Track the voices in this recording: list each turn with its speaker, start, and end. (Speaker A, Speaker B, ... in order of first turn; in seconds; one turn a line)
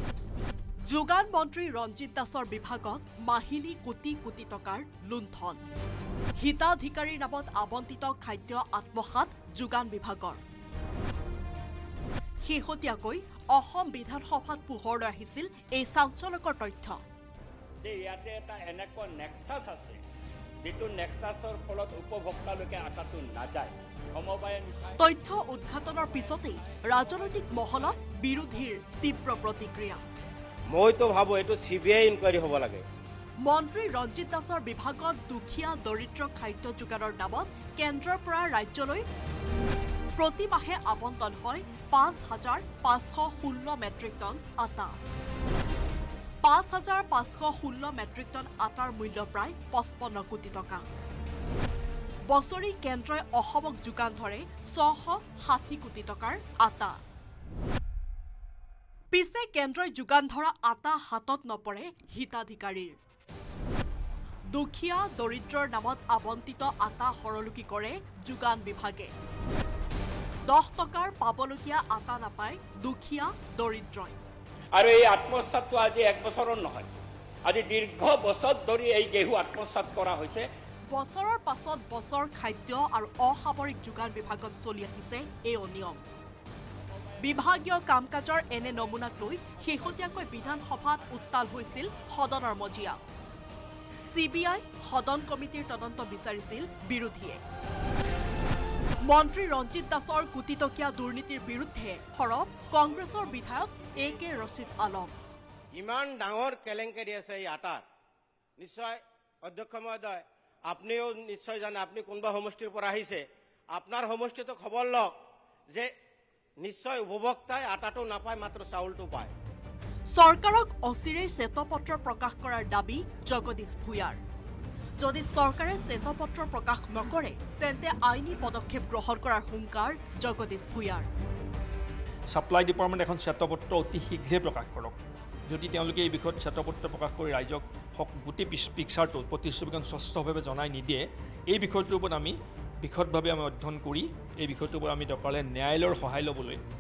Speaker A: 0.8-5.6
Speaker A: 6.3-10.4
Speaker A: 12.4-17.0
Speaker B: 17.8-20.0
Speaker B: 20.6-25.0
Speaker A: 25.0-30.0
Speaker C: 30.7-32.8
Speaker A: 33.4-39.0
Speaker A: 40.2-45.0
Speaker A: 46.4-50.8
Speaker A: 52.2-57.0
Speaker A: 59.1-63.0
Speaker A: 64.5-69.1
Speaker A: 70.4-74.2
Speaker B: 74.7-76.9
Speaker B: 77.5-80.5
Speaker A: 80.9-86.1
Speaker A: 87.2-93.0
Speaker A: 94.1-97.4
Speaker A: 99.0-105.2
Speaker C: 105.7-107.8
Speaker C: 108.6-115.2
Speaker C: 116.6-119.3
Speaker A: 120.1-124.2
Speaker A: 125.0-131.1
Speaker D: 132.3-134.9
Speaker D: 135.5-146.6